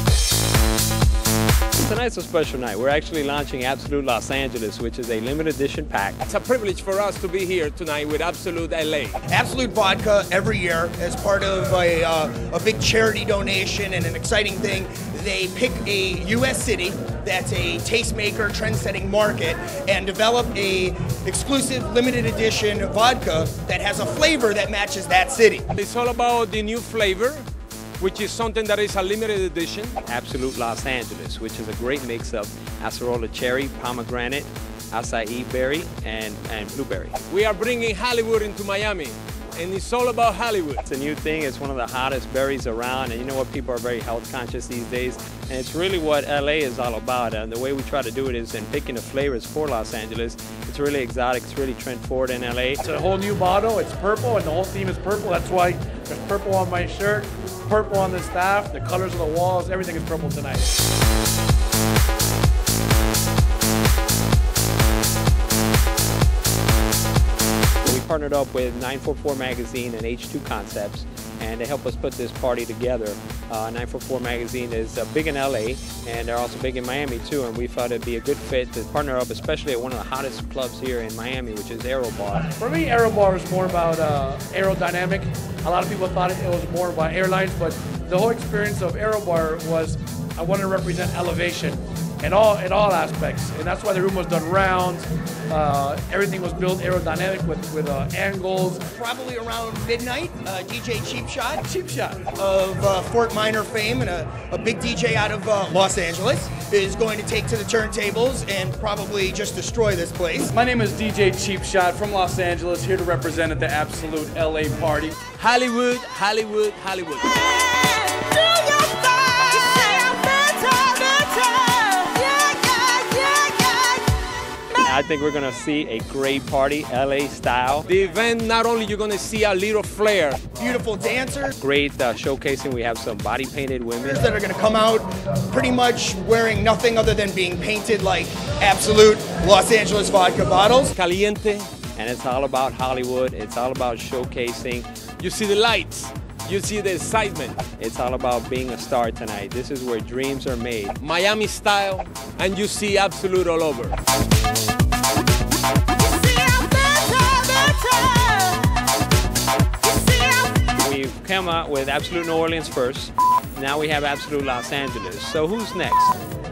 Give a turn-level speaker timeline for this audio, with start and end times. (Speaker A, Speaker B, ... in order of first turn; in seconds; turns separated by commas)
Speaker A: 1.8-6.2, Speaker B: 6.2-9.2, Speaker C: 9.3-25.7, Speaker B: 25.8-27.4, Speaker B: 28.0-30.0, Speaker A: 30.0-37.2, Speaker B: 37.3-40.8, Speaker A: 40.8-52.8, Speaker D: 52.8-60.8, Speaker A: 67.8-82.5, Speaker D: 82.5-98.9, Speaker C: 98.9-101.7, Speaker D: 101.8-102.1, Speaker C: 102.3-110.5, Speaker E: 110.5-115.1, Speaker B: 115.3-124.0, Speaker A: 124.8-127.9, Speaker B: 127.8-130.4, Speaker C: 130.6-131.5, Speaker A: 131.5-134.2, Speaker C: 134.0-140.9, Speaker B: 140.9-141.7, Speaker A: 142.0-144.9, Speaker B: 145.2-147.6, Speaker A: 147.8-151.0, Speaker B: 151.0-154.0, Speaker B: 156.0-158.7, Speaker B: 159.8-160.6, Speaker A: 160.8-166.1